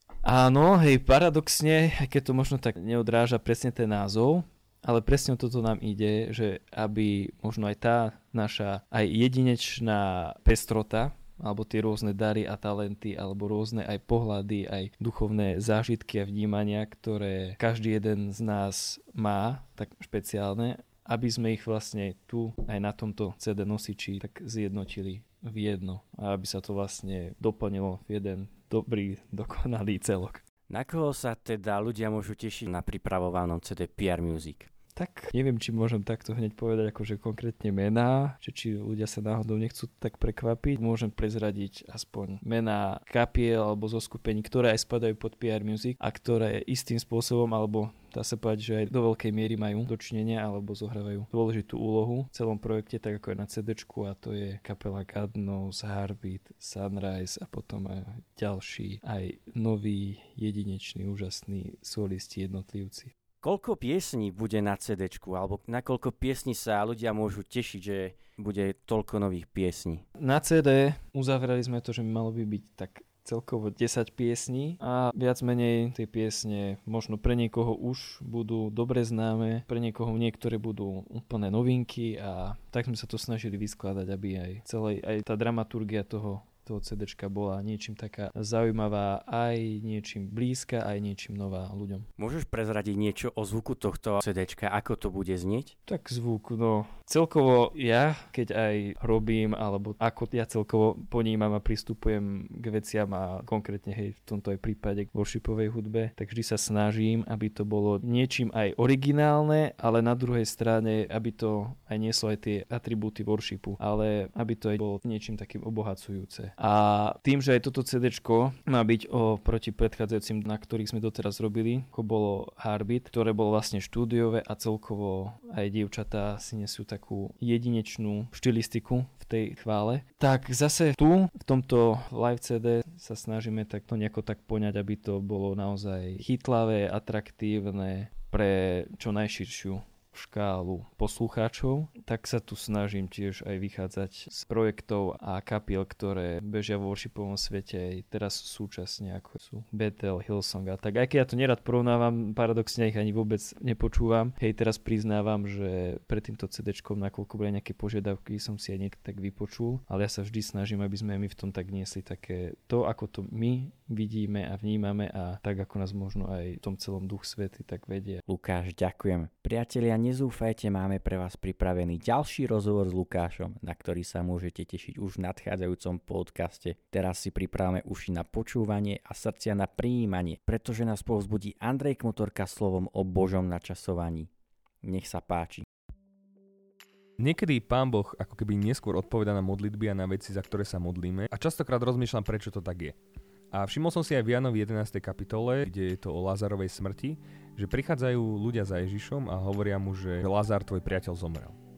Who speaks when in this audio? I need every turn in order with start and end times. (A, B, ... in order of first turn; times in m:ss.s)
0:00.2-0:30.4 A
0:30.7-0:34.7 B
0:34.9-1:03.1 A
1:03.4-1:10.0 B
1:10.2-1:32.1 A
1:32.2-1:35.7 B
1:35.9-2:48.2 A
2:48.2-3:04.3 B
3:04.8-3:05.6 B
3:07.2-3:12.9 C
3:13.5-3:21.6 C